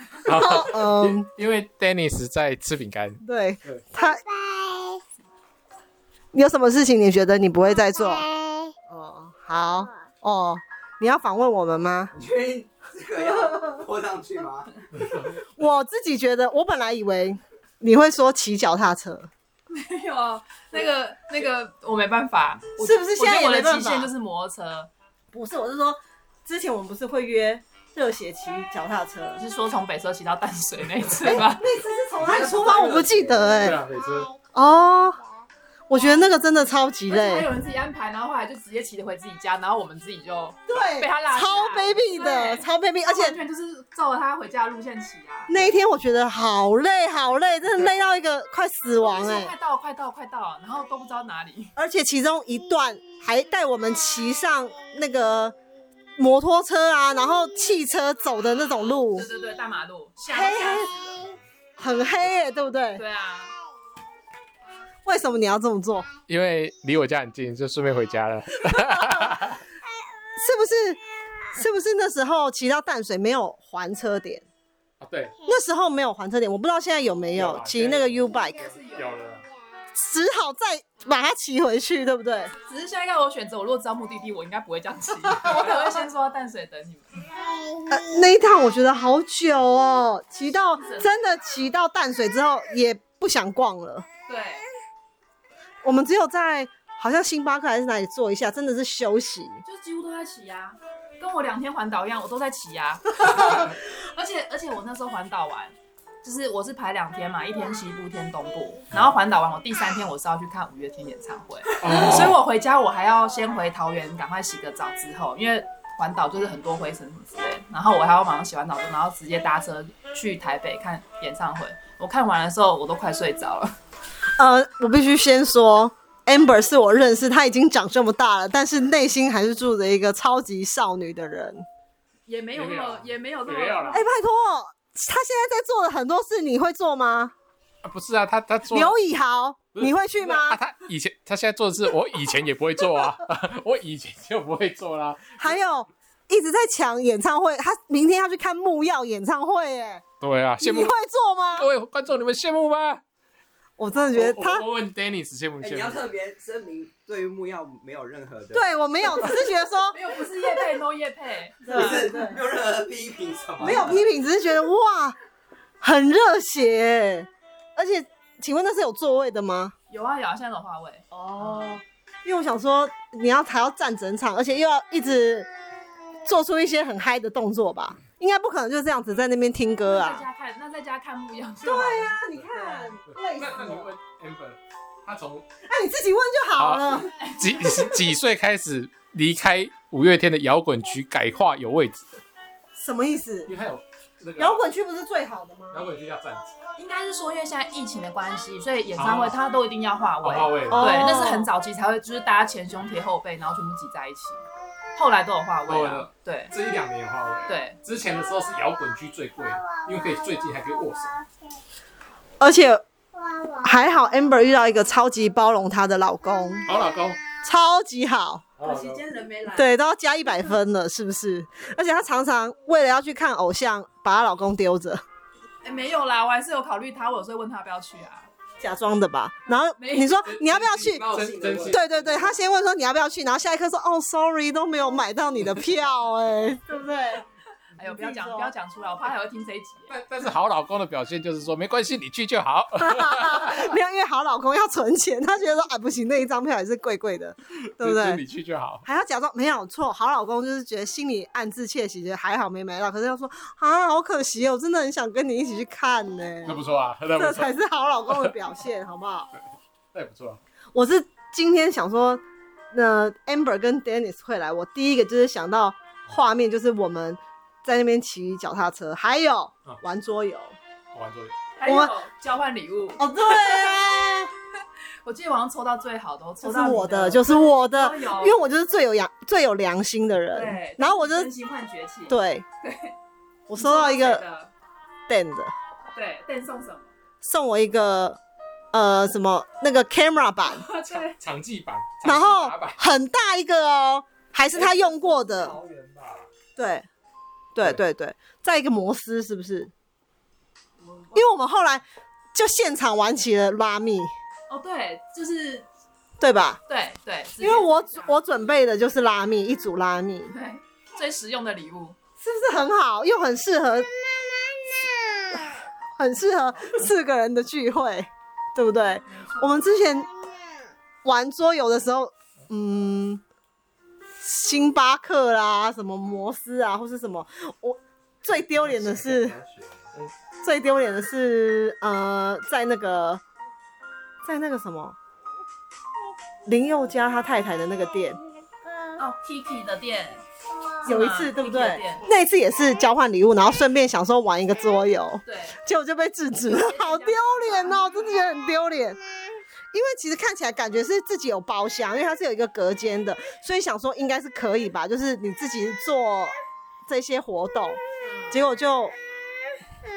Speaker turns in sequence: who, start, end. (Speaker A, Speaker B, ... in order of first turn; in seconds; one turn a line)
Speaker A: 0.2-3.8
Speaker B: 0.3-1.3
Speaker B: 3.2-4.9
Speaker B: 6.3-8.3
Speaker B: 8.9-12.1
Speaker C: 12.1-14.9
Speaker B: 15.3-19.3
Speaker D: 19.7-24.9
Speaker B: 22.8-24.1
Speaker B: 25.3-29.4
Speaker D: 29.4-31.7
Speaker B: 31.2-33.8
Speaker C: 32.2-33.8
Speaker A: 33.6-34.3
Speaker B: 34.5-35.2
Speaker B: 35.9-37.5
Speaker D: 37.1-45.6
Speaker B: 40.7-43.4
Speaker B: 45.5-49.5
Speaker D: 49.0-51.7
Speaker B: 51.8-55.5
Speaker B: 56.2-59.3
Speaker D: 59.1-61.3
Speaker B: 60.3-60.9
Speaker B: 61.8-63.0
Speaker D: 63.0-63.5
Speaker B: 65.0-66.1
Speaker A: 66.3-69.6
Speaker B: 68.9-69.4
Speaker B: 70.4-71.0
Speaker B: 71.5-74.5
Speaker A: 75.0-75.3
Speaker B: 75.4-78.6
Speaker A: 77.3-79.5
Speaker D: 78.5-79.1
Speaker B: 79.9-82.5
Speaker D: 82.6-87.2
Speaker B: 85.3-85.8
Speaker B: 87.9-94.0
Speaker D: 90.8-91.2
Speaker D: 94.3-94.7
Speaker B: 95.8-99.6
Speaker D: 99.7-123.7
Speaker A: 111.8-112.4
Speaker B: 124.4-131.6
Speaker D: 132.3-134.0
Speaker A: 132.5-134.0
Speaker B: 133.9-137.3
Speaker A: 137.8-139.0
Speaker B: 138.7-140.6
Speaker A: 139.8-145.5
Speaker B: 145.4-150.0
Speaker A: 150.2-150.9
Speaker B: 150.6-151.7
Speaker A: 151.6-153.0
Speaker B: 153.8-154.7
Speaker A: 154.1-156.0
Speaker C: 155.6-158.7
Speaker B: 158.5-160.0
Speaker D: 159.9-162.1
Speaker C: 161.7-164.0
Speaker B: 161.7-162.4
Speaker B: 163.6-165.2
Speaker B: 165.8-169.7
Speaker D: 169.9-171.8
Speaker B: 171.1-175.5
Speaker B: 176.2-180.3
Speaker D: 179.8-182.9
Speaker B: 181.6-183.9
Speaker A: 183.1-185.4
Speaker B: 185.7-187.1
Speaker A: 186.6-192.2
Speaker D: 187.2-187.7
Speaker B: 192.8-193.5
Speaker A: 193.5-194.6
Speaker B: 194.4-195.9
Speaker A: 195.7-196.5
Speaker D: 196.8-204.4
Speaker A: 198.9-199.3
Speaker A: 200.2-201.0
Speaker B: 200.7-201.5
Speaker D: 204.9-206.5
Speaker A: 205.7-211.2
Speaker D: 207.5-207.8
Speaker B: 212.4-212.8
Speaker B: 213.6-216.7
Speaker A: 216.7-217.2
Speaker B: 217.4-218.5
Speaker A: 218.6-219.0
Speaker D: 218.6-219.7
Speaker B: 219.5-225.0
Speaker D: 225.6-228.3
Speaker B: 228.6-231.1
Speaker D: 229.8-230.3
Speaker A: 230.3-231.8
Speaker C: 230.9-232.3
Speaker B: 231.7-237.3
Speaker D: 237.8-239.9
Speaker B: 237.8-238.5
Speaker A: 239.9-243.7
Speaker B: 242.8-248.2
Speaker A: 247.8-248.8
Speaker B: 248.8-256.6
Speaker A: 256.5-257.5
Speaker B: 257.1-259.3
Speaker A: 259.9-260.4
Speaker B: 260.7-262.2
Speaker B: 262.7-270.6
Speaker A: 270.9-271.4
Speaker D: 271.6-273.8
Speaker B: 271.6-271.9
Speaker B: 273.0-274.3
Speaker D: 275.0-278.4
Speaker B: 276.4-281.3
Speaker D: 280.3-282.9
Speaker B: 282.1-282.4
Speaker B: 283.5-284.2
Speaker D: 283.6-284.5
Speaker B: 285.1-285.5
Speaker D: 285.9-286.9
Speaker B: 287.2-288.2
Speaker B: 288.7-290.6
Speaker D: 290.5-291.2
Speaker A: 291.1-292.8
Speaker B: 292.0-295.6
Speaker C: 294.5-296.3
Speaker B: 296.6-296.9
Speaker B: 297.6-299.7
Speaker D: 300.8-301.3
Speaker B: 301.1-301.8
Speaker B: 302.3-304.1
Speaker D: 304.5-305.7
Speaker B: 306.2-306.6
Speaker D: 306.7-308.2
Speaker B: 307.4-310.3
Speaker D: 310.3-312.0
Speaker B: 312.2-313.9
Speaker B: 315.0-320.1
Speaker D: 319.1-319.5
Speaker B: 321.0-323.2
Speaker B: 324.2-329.4
Speaker C: 328.4-329.9
Speaker B: 330.4-333.2
Speaker B: 334.2-335.0
Speaker B: 336.5-338.2
Speaker D: 339.0-340.2
Speaker D: 340.8-342.1
Speaker B: 340.9-349.0
Speaker D: 345.3-345.6
Speaker D: 346.5-348.1
Speaker B: 349.7-356.4
Speaker B: 356.9-358.9
Speaker D: 358.1-358.3